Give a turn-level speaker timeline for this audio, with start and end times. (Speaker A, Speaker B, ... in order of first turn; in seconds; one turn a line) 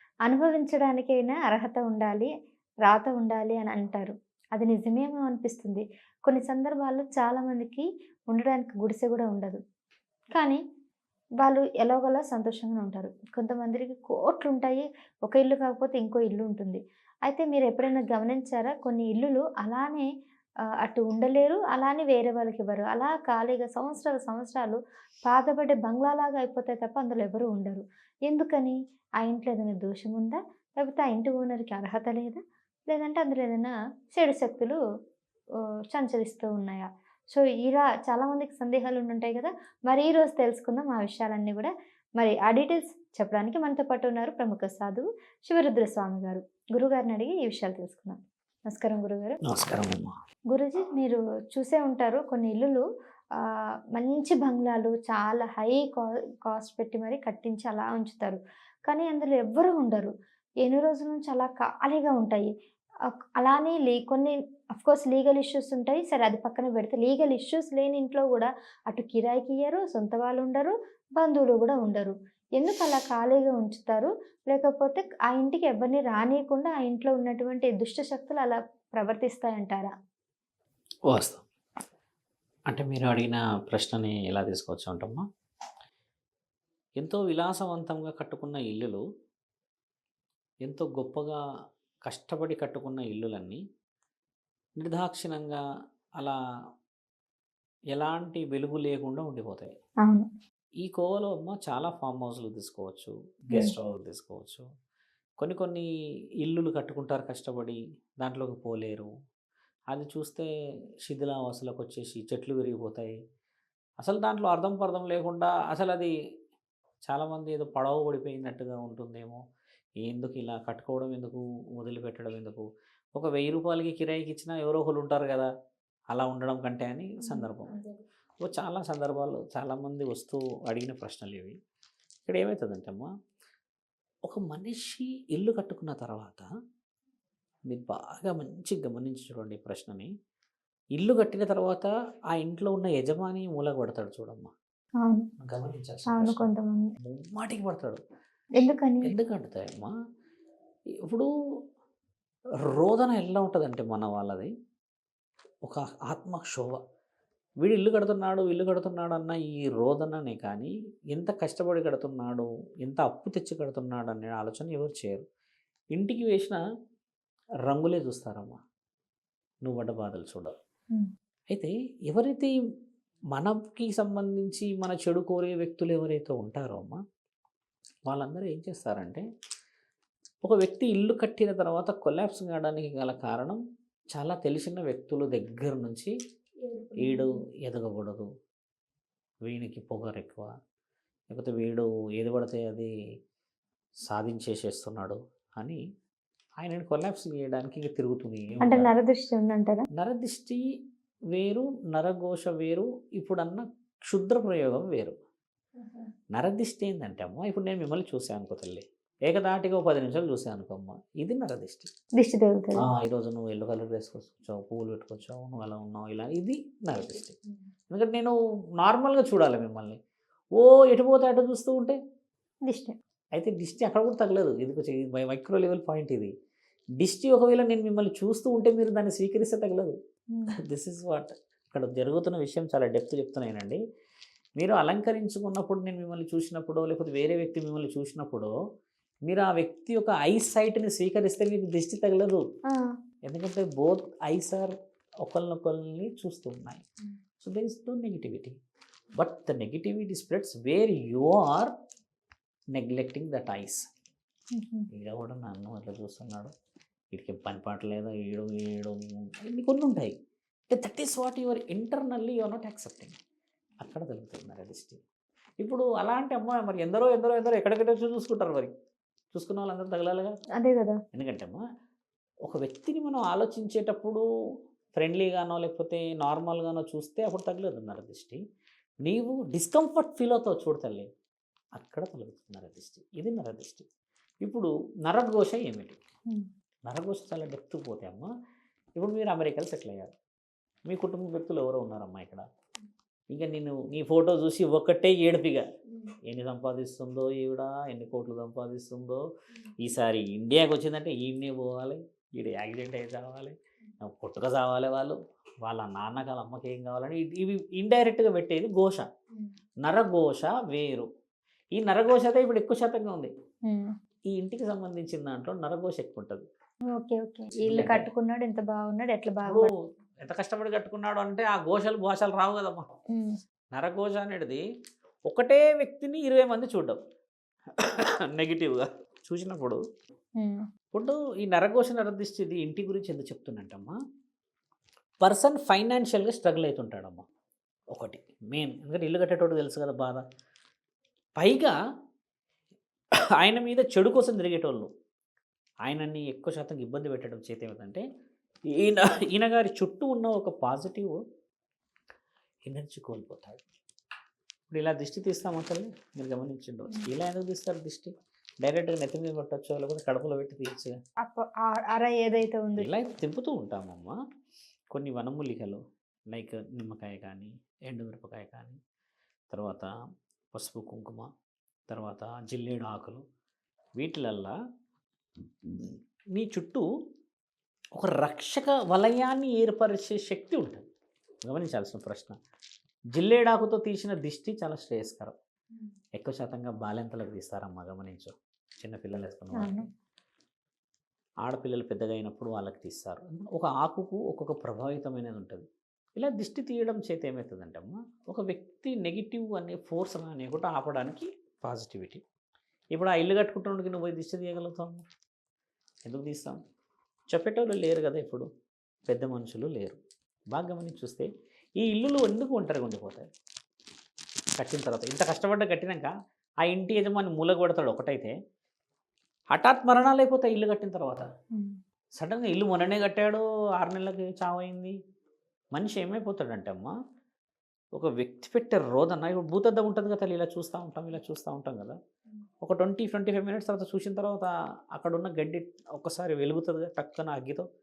Speaker A: 0.3-2.3
Speaker A: 2.8-9.6
Speaker A: 10.3-10.6
Speaker A: 11.4-20.1
Speaker A: 20.8-34.8
Speaker A: 35.9-49.4
Speaker B: 49.4-50.1
Speaker A: 50.5-52.8
Speaker A: 53.4-60.1
Speaker A: 60.6-62.5
Speaker A: 63.4-79.9
Speaker B: 81.1-81.5
Speaker B: 82.7-85.2
Speaker B: 87.0-89.0
Speaker B: 90.6-91.4
Speaker B: 92.0-93.6
Speaker B: 94.8-95.6
Speaker B: 97.9-99.7
Speaker B: 100.8-104.7
Speaker B: 105.4-105.9
Speaker B: 106.4-109.1
Speaker B: 109.9-110.5
Speaker B: 111.0-113.2
Speaker B: 114.0-116.1
Speaker B: 117.0-119.4
Speaker B: 120.0-125.5
Speaker B: 126.1-127.7
Speaker A: 127.2-128.0
Speaker B: 128.4-131.6
Speaker B: 132.2-133.1
Speaker B: 134.3-136.5
Speaker B: 137.7-140.1
Speaker B: 141.0-144.5
Speaker B: 145.4-146.4
Speaker A: 146.1-146.9
Speaker B: 147.0-148.0
Speaker A: 148.6-149.1
Speaker B: 149.0-149.9
Speaker B: 152.7-154.5
Speaker B: 155.6-156.8
Speaker B: 157.6-165.2
Speaker B: 165.9-166.6
Speaker B: 167.7-168.6
Speaker B: 169.6-170.5
Speaker B: 171.5-172.5
Speaker B: 173.3-177.0
Speaker B: 178.1-179.2
Speaker B: 180.4-183.6
Speaker B: 184.1-186.1
Speaker A: 186.7-187.3
Speaker B: 187.0-188.3
Speaker B: 189.5-190.5
Speaker B: 191.3-192.9
Speaker B: 194.1-195.8
Speaker B: 196.6-198.9
Speaker A: 198.6-199.8
Speaker B: 199.9-200.6
Speaker B: 201.3-205.1
Speaker A: 205.8-206.1
Speaker B: 206.3-211.9
Speaker A: 212.2-212.8
Speaker B: 212.8-217.4
Speaker B: 217.9-220.0
Speaker B: 220.6-222.0
Speaker A: 222.7-222.9
Speaker B: 223.3-226.3
Speaker B: 227.0-229.9
Speaker B: 230.6-233.8
Speaker B: 234.6-238.5
Speaker B: 239.3-242.4
Speaker B: 243.3-244.7
Speaker B: 245.2-246.8
Speaker B: 247.4-248.6
Speaker B: 249.2-251.7
Speaker B: 252.7-253.8
Speaker A: 254.5-254.9
Speaker B: 254.9-256.5
Speaker B: 257.1-260.2
Speaker B: 260.7-263.2
Speaker B: 263.8-265.0
Speaker B: 265.6-268.7
Speaker B: 269.3-270.3
Speaker A: 270.6-271.0
Speaker B: 271.1-271.6
Speaker B: 272.4-274.2
Speaker B: 274.9-278.4
Speaker B: 279.0-281.1
Speaker B: 281.8-283.9
Speaker B: 284.4-286.0
Speaker B: 286.9-288.3
Speaker B: 289.0-290.1
Speaker B: 290.9-292.4
Speaker B: 293.3-295.6
Speaker B: 296.2-299.2
Speaker B: 299.8-309.1
Speaker B: 309.8-311.1
Speaker B: 311.8-313.3
Speaker B: 314.3-316.5
Speaker A: 316.9-319.7
Speaker B: 317.6-318.1
Speaker B: 319.4-322.9
Speaker B: 323.7-324.6
Speaker B: 325.3-327.0
Speaker B: 327.7-329.8
Speaker B: 330.9-333.9
Speaker B: 335.2-337.2
Speaker B: 337.9-340.2
Speaker B: 341.4-341.7
Speaker B: 343.4-344.9
Speaker B: 345.8-348.0
Speaker B: 348.7-351.2
Speaker B: 352.7-353.6
Speaker B: 354.7-358.1
Speaker B: 358.6-360.9
Speaker A: 361.2-362.9
Speaker B: 362.8-364.1
Speaker B: 364.9-365.8
Speaker B: 366.3-368.8
Speaker B: 369.5-369.9
Speaker B: 370.5-371.3
Speaker B: 371.9-373.2
Speaker B: 374.0-374.6
Speaker B: 375.6-376.8
Speaker B: 377.9-380.8
Speaker B: 381.4-382.3
Speaker B: 383.1-385.3
Speaker B: 386.2-389.8
Speaker A: 389.6-389.9
Speaker B: 391.4-402.2
Speaker B: 402.9-405.1
Speaker B: 406.1-406.6
Speaker B: 407.3-408.5
Speaker B: 409.1-410.0
Speaker B: 410.5-413.3
Speaker B: 414.6-416.1
Speaker B: 416.6-418.4
Speaker B: 419.5-421.3
Speaker B: 422.2-425.0
Speaker B: 425.7-426.9
Speaker B: 427.9-432.0
Speaker B: 432.6-437.6